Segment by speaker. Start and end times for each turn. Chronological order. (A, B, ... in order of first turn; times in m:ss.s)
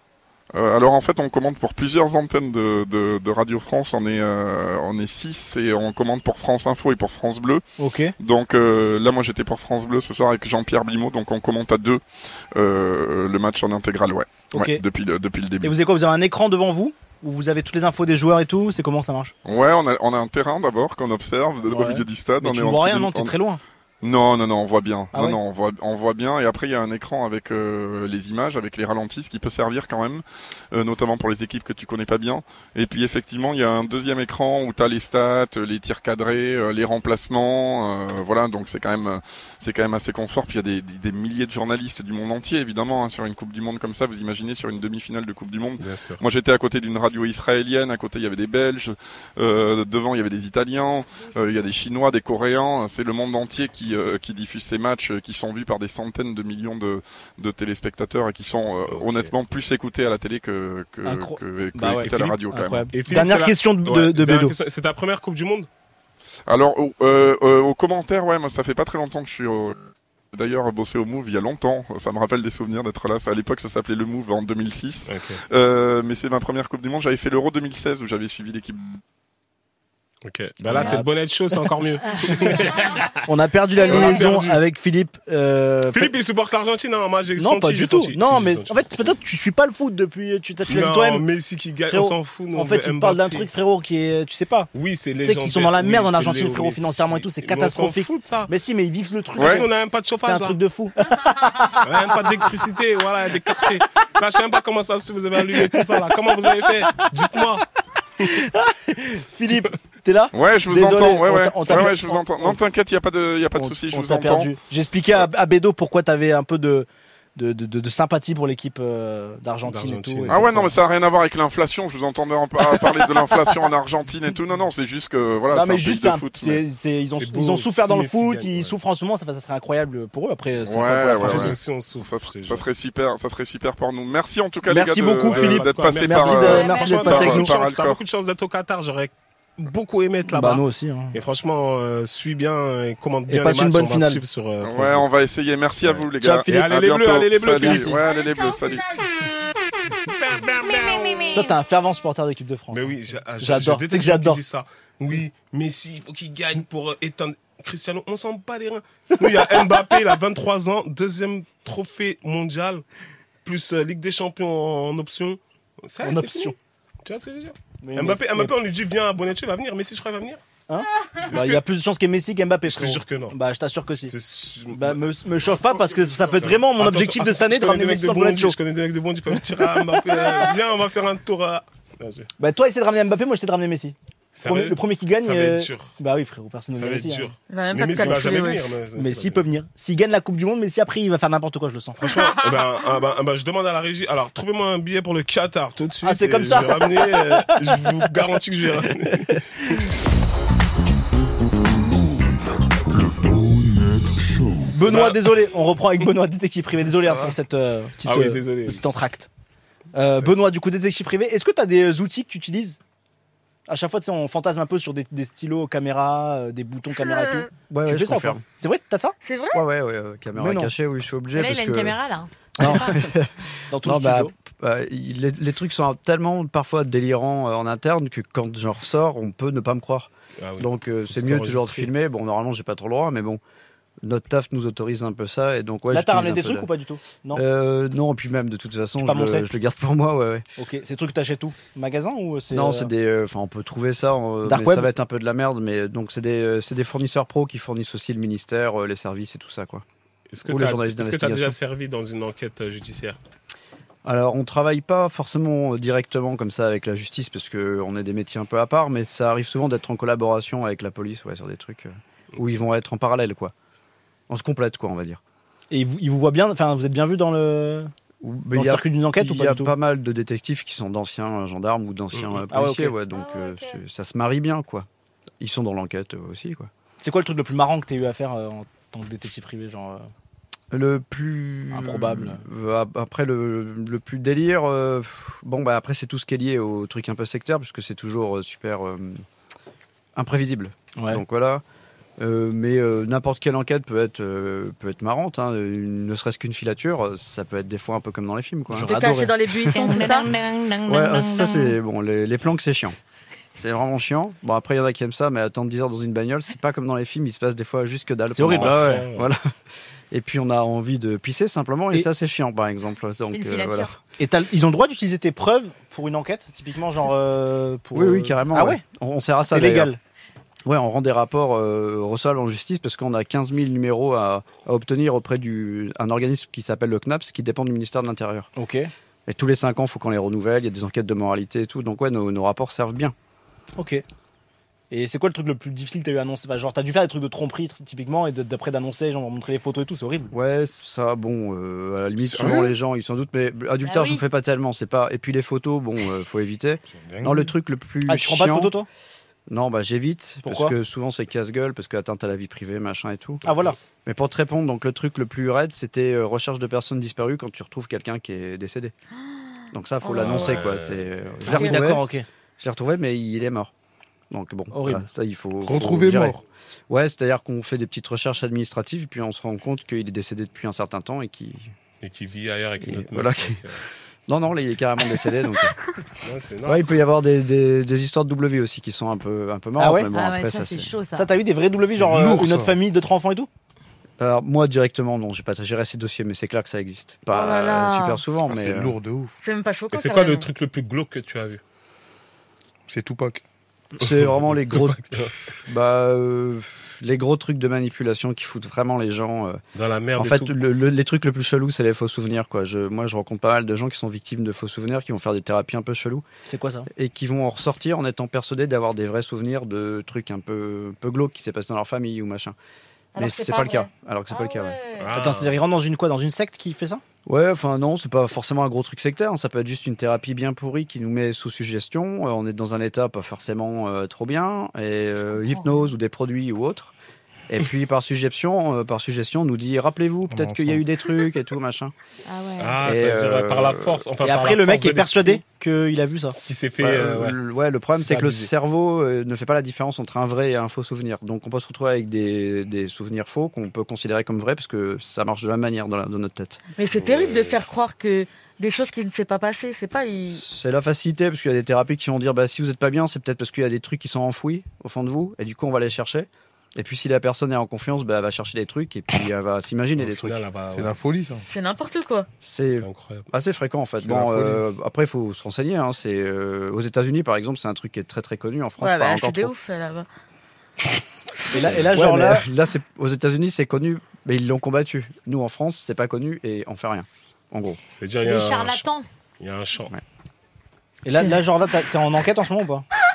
0:00.5-0:07.6 A
0:07.8-0:08.1 B
0:08.2-0:12.0 A
0:12.5-0:15.7 A
0:14.5-0:14.8 B
0:15.6-0:19.3 B
0:19.4-0:23.3 A
0:21.7-0:23.6 B
0:24.0-1:02.9 A
0:25.1-0:25.4 B
0:45.8-0:46.2 C
0:58.9-0:59.3 C
1:01.0-1:04.5 B
1:02.0-1:02.4 C
1:02.9-1:05.7 C
1:06.5-1:09.8 A
1:10.3-1:18.9 A
1:15.1-1:15.4 C
1:20.2-1:23.2 C
1:20.7-1:21.1 B
1:22.1-1:22.6 D
1:22.3-1:22.6 B
1:23.2-1:26.1 B
1:23.8-1:24.3 D
1:23.8-1:24.6 C
1:25.9-1:29.1 C
1:27.4-1:31.2 B
1:30.7-1:33.5 C
1:31.9-1:34.7 B
1:34.7-1:38.5 C
1:35.2-1:39.7 B
1:39.4-1:39.6 A
1:39.4-1:40.6 C
1:40.2-1:41.8 B
1:41.8-1:47.6 C
1:48.2-1:52.6 B
1:50.3-1:54.5 A
1:53.5-2:00.7 B
1:59.7-2:00.6 C
2:00.3-2:06.6 A
2:05.5-2:11.6 B
2:07.1-2:08.7 C
2:10.6-2:18.0 A
2:11.2-2:12.6 C
2:14.7-2:17.5 B
2:15.3-2:25.1 C
2:16.3-2:17.4 D
2:20.3-2:21.2 B
2:23.3-2:24.2 B
2:24.6-2:28.8 A
2:25.8-2:28.0 C
2:26.2-2:26.8 B
2:27.5-2:28.0 B
2:28.0-2:29.1 E
2:30.0-2:31.4 C
2:30.6-2:31.5 D
2:31.3-2:34.4 B
2:32.7-2:42.8 C
2:39.2-2:39.6 B
2:43.4-2:46.5 C
2:46.0-2:46.5 B
2:47.0-2:50.4 C
2:47.8-2:48.5 B
2:50.7-2:54.1 B
2:51.2-2:51.6 C
2:52.7-2:53.4 C
2:54.1-3:02.3 C
2:54.7-2:58.6 B
3:02.4-3:07.3 B
3:04.3-3:05.9 C
3:06.7-3:09.4 C
3:07.5-3:08.6 E
3:07.9-3:12.0 B
3:12.0-3:19.7 C
3:16.0-3:17.6 B
3:19.3-3:19.8 B
3:24.7-3:29.3 B
3:24.8-3:25.3 C
3:28.0-3:28.8 C
3:29.9-3:32.8 B
3:33.7-3:39.1 B
3:37.0-3:37.5 E
3:37.7-3:38.4 F
3:39.2-3:39.6 E
3:39.5-3:42.0 F
3:40.4-3:40.7 B
3:41.3-3:42.9 D
3:42.6-3:53.4 F
3:42.6-3:44.3 B
3:50.4-3:51.9 C
3:54.0-3:56.7 F
3:55.9-3:57.4 B
3:57.3-4:00.4 F
3:59.0-3:59.5 B
4:00.6-4:02.9 B
4:02.5-4:09.8 F
4:04.4-4:04.9 B
4:10.3-4:13.2 C
4:10.4-4:11.6 F
4:14.0-4:23.5 F
4:24.3-4:25.2 F
4:25.7-4:27.9 B
4:28.2-4:34.8 F
4:28.5-4:29.7 B
4:32.1-4:32.4 C
4:32.5-4:33.0 B
4:33.1-4:33.8 E
4:35.4-4:36.7 F
4:37.0-4:40.1 B
4:40.7-4:49.2 F
4:41.7-4:42.4 B
4:50.2-4:51.6 F
4:51.0-4:51.2 B
4:52.2-4:58.9 F
4:58.7-4:59.3 B
4:58.8-5:00.3 E
4:59.5-5:00.0 F
4:59.7-5:01.8 D
5:00.8-5:03.0 F
5:03.6-5:09.5 F
5:08.3-5:09.1 B
5:08.5-5:09.3 C
5:10.1-5:13.9 F
5:13.3-5:13.9 D
5:14.2-5:18.8 B
5:17.9-5:19.9 F
5:19.4-5:20.0 B
5:20.6-5:28.5 F
5:28.6-5:28.9 B
5:29.3-5:33.1 F
5:33.8-5:34.0 B
5:34.9-5:40.3 B
5:40.3-5:48.7 F
5:42.2-5:42.7 G
5:43.8-5:44.2 D
5:46.9-5:47.5 G
5:48.1-5:48.9 B
5:49.5-5:53.5 F
5:50.4-5:50.7 B
5:53.4-5:53.8 B
5:54.0-5:58.9 F
5:59.7-6:02.0 F
6:00.0-6:00.6 E
6:00.2-6:01.3 C
6:01.4-6:02.2 B
6:02.6-6:03.7 F
6:04.3-6:06.4 F
6:04.7-6:05.0 B
6:05.6-6:06.4 G
6:06.9-6:11.7 F
6:12.0-6:13.8 C
6:12.8-6:13.7 F
6:14.3-6:15.7 F
6:16.2-6:17.0 C
6:16.6-6:20.9 F
6:19.8-6:20.1 B
6:20.1-6:21.3 D
6:21.1-6:23.5 B
6:22.0-6:22.8 G
6:24.2-6:29.0 F
6:27.3-6:28.2 E
6:28.5-6:29.3 G
6:29.4-6:30.5 E
6:29.9-6:31.6 C
6:32.9-6:33.4 G
6:34.0-6:35.1 F
6:34.0-6:35.3 C
6:35.7-6:39.6 F
6:39.7-6:40.6 C
6:40.2-6:46.2 F
6:46.4-6:46.9 B
6:46.9-6:52.5 F
6:53.1-6:55.1 E
6:53.2-6:54.8 F
6:55.0-6:55.6 C
6:55.1-6:57.0 B
6:57.2-7:06.9 F
7:05.3-7:05.9 D
7:07.5-7:11.9 F
7:10.3-7:10.8 G
7:12.2-7:12.8 D
7:12.6-7:15.4 C
7:12.8-7:14.0 F
7:14.2-7:16.4 B
7:16.4-7:17.4 C
7:16.8-7:26.6 F
7:17.9-7:18.5 C
7:26.8-7:30.4 E
7:26.9-7:27.5 C
7:30.3-7:40.4 F
7:40.0-7:40.9 C
7:40.7-7:41.4 G
7:41.4-7:42.3 E
7:42.4-7:49.5 F
7:42.7-7:43.3 C
7:44.0-7:44.6 G
7:48.8-7:50.1 E
7:51.5-7:52.4 B
7:51.6-7:57.8 F
7:57.9-7:58.8 C
7:58.2-7:59.0 D
7:59.4-7:59.9 C
8:01.0-8:02.8 B